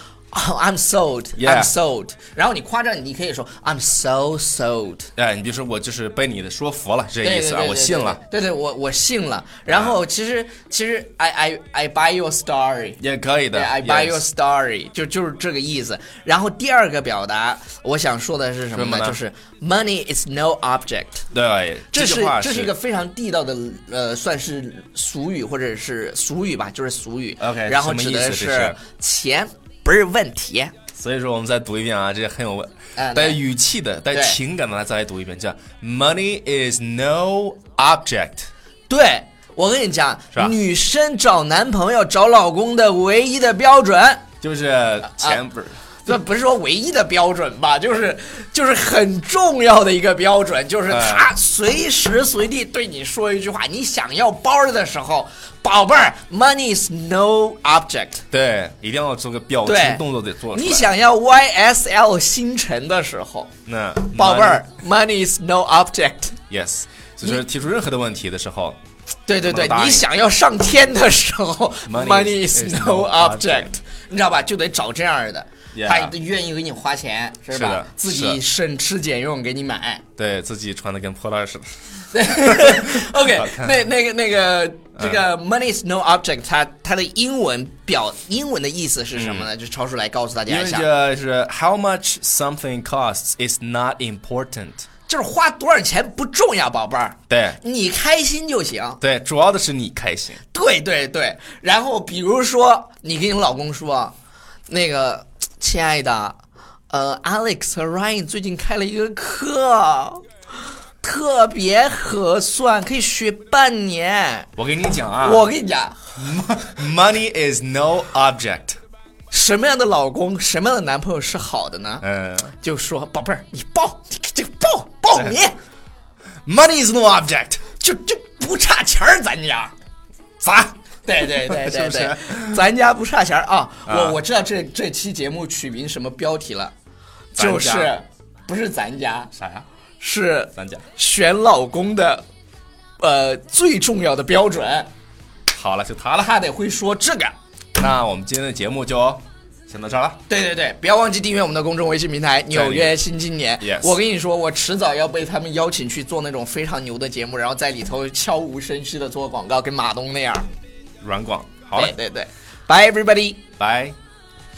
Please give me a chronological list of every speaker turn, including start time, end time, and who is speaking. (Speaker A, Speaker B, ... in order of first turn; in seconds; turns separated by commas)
Speaker A: 0.3-5.1, Speaker B: 1.4-1.7, Speaker B: 5.2-8.2, Speaker A: 7.2-13.0, Speaker B: 9.7-9.9, Speaker B: 13.0-14.2, Speaker A: 13.5-21.2, Speaker B: 18.7-19.2, Speaker B: 21.3-22.7, Speaker A: 21.9-30.7, Speaker B: 27.4-28.8, Speaker B: 30.9-38.5, Speaker A: 33.0-33.4, Speaker A: 34.1-34.4, Speaker A: 38.9-44.3, Speaker B: 44.4-45.9, Speaker A: 46.0-58.2, Speaker B: 50.9-51.3, Speaker B: 58.3-60.9, Speaker A: 59.6-63.5, Speaker B: 63.6-64.6, Speaker A: 64.1-66.4, Speaker B: 66.5-68.8, Speaker A: 69.3-80.0, Speaker B: 69.4-70.1, Speaker B: 71.8-73.7, Speaker B: 75.7-76.1, Speaker B: 77.5-78.4, Speaker B: 80.2-81.7, Speaker A: 82.1-90.8, Speaker B: 82.2-83.8, Speaker B: 85.0-85.2, Speaker B: 89.1-89.5, Speaker B: 90.5-94.8, Speaker A: 95.1-99.0, Speaker B: 97.3-97.6, Speaker B: 99.0-100.4, Speaker A: 100.5-104.1, Speaker A: 104.7-106.4, Speaker A: 106.9-110.2, Speaker A: 111.0-114.5, Speaker B: 114.6-115.5, Speaker A: 115.2-116.5, Speaker B: 116.2-118.8, Speaker A: 119.3-122.0, Speaker B: 122.0-122.5, Speaker A: 122.6-125.6, Speaker B: 126.4-127.6, Speaker A: 127.8-129.7, Speaker B: 130.4-132.6, Speaker A: 131.0-136.7, Speaker B: 133.8-134.2, Speaker B: 137.3-137.9, Speaker A: 137.4-139.3, Speaker B: 139.3-139.7, Speaker A: 140.0-142.2, Speaker B: 140.5-140.8, Speaker A: 143.0-144.9, Speaker B: 145.5-146.4, Speaker A: 146.3-147.3, Speaker B: 147.8-150.2, Speaker A: 150.3-160.5, Speaker B: 152.5-153.0, Speaker B: 153.6-154.0, Speaker B: 161.0-161.9, Speaker A: 161.7-163.4, Speaker B: 163.6-163.9